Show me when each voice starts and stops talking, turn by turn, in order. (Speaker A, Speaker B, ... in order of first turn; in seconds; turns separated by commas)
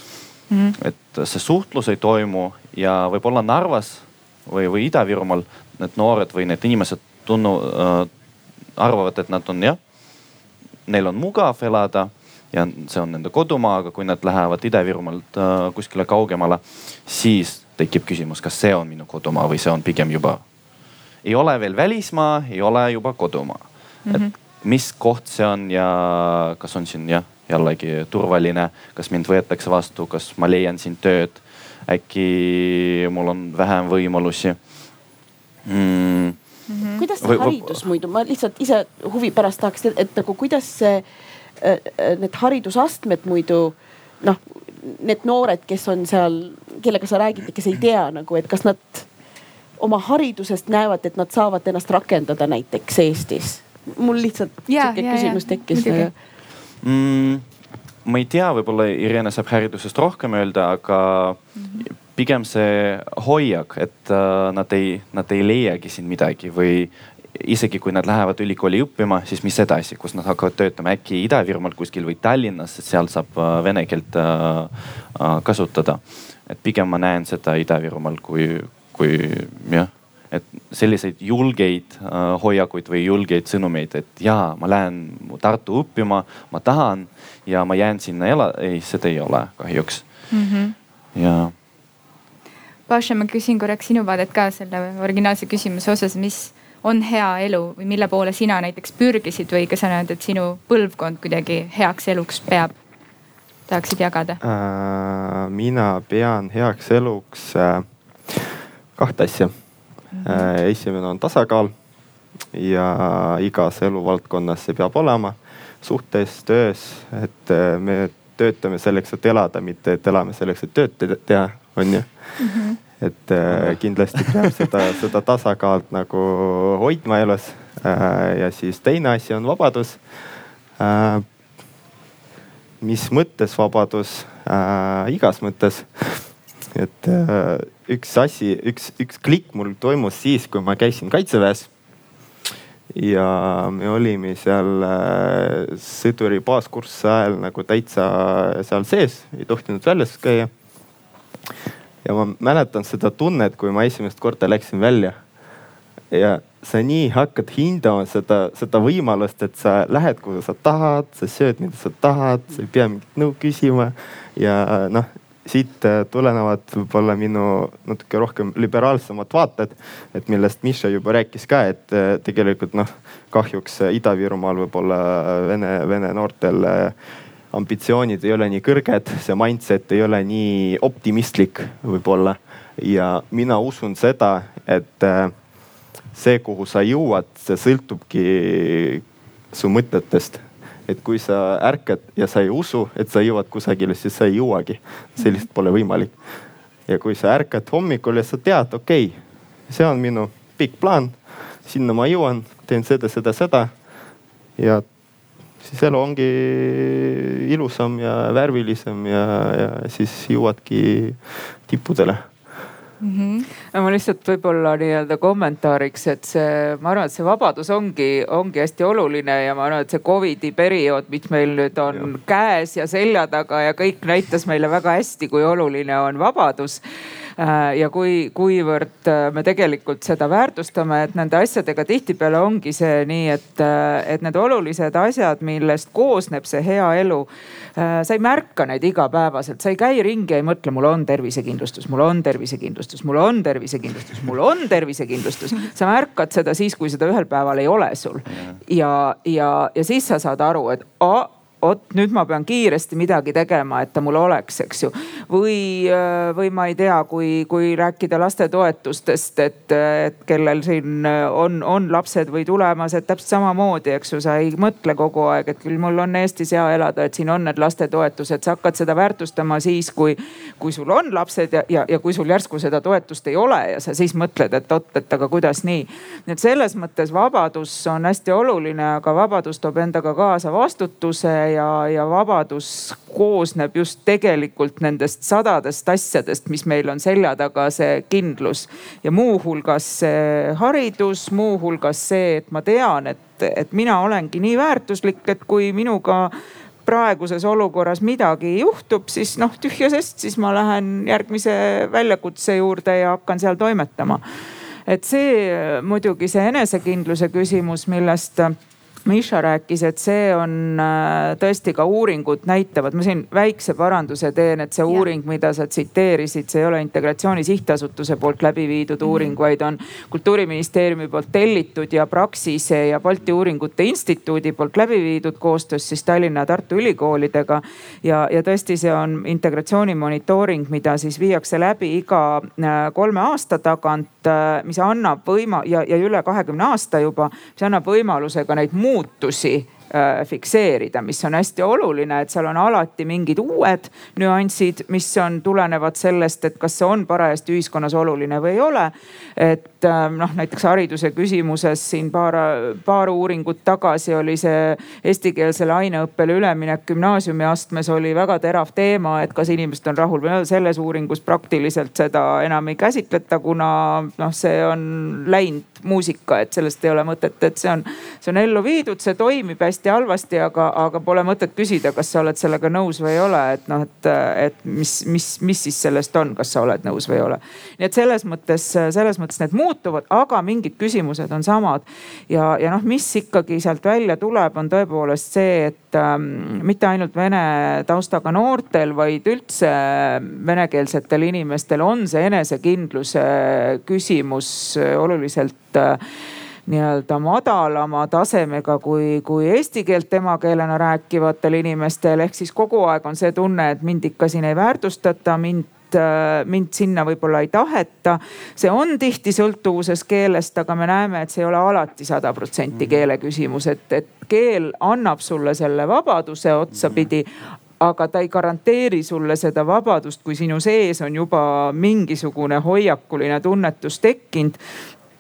Speaker A: 0.5-0.8, Speaker B: 0.8-8.1, Speaker B: 8.8-9.8, Speaker B: 10.9-20.4, Speaker B: 21.2-34.6, Speaker A: 24.1-24.3, Speaker B: 35.7-36.4, Speaker A: 36.7-37.0, Speaker C: 37.0-41.0, Speaker B: 37.2-37.8, Speaker C: 41.6-49.1, Speaker C: 49.8-56.1, Speaker A: 54.7-56.1, Speaker B: 56.8-57.5, Speaker B: 58.0-90.0, Speaker A: 61.6-61.8, Speaker A: 90.3-90.7, Speaker B: 91.2-91.5, Speaker A: 92.9-102.7, Speaker A: 103.7-104.4, Speaker D: 104.4-109.5, Speaker A: 110.2-110.5, Speaker D: 110.2-111.7, Speaker D: 112.5-122.1, Speaker A: 122.4-122.8, Speaker D: 123.0-130.0, Speaker D: 130.8-131.2, Speaker D: 132.8-141.7, Speaker D: 142.9-150.5, Speaker D: 152.0-155.2, Speaker D: 156.1-176.9, Speaker D: 177.5-185.3, Speaker D: 186.1-196.1, Speaker D: 196.9-199.2, Speaker D: 199.7-201.2, Speaker D: 201.7-203.7, Speaker D: 204.6-204.8, Speaker D: 205.6-212.2, Speaker A: 213.0-213.5, Speaker E: 213.7-226.8, Speaker E: 227.4-296.3, Speaker E: 296.9-304.2, Speaker E: 304.9-396.0, Speaker A: 319.0-319.4, Speaker E: 396.7-417.3, Speaker E: 417.8-424.6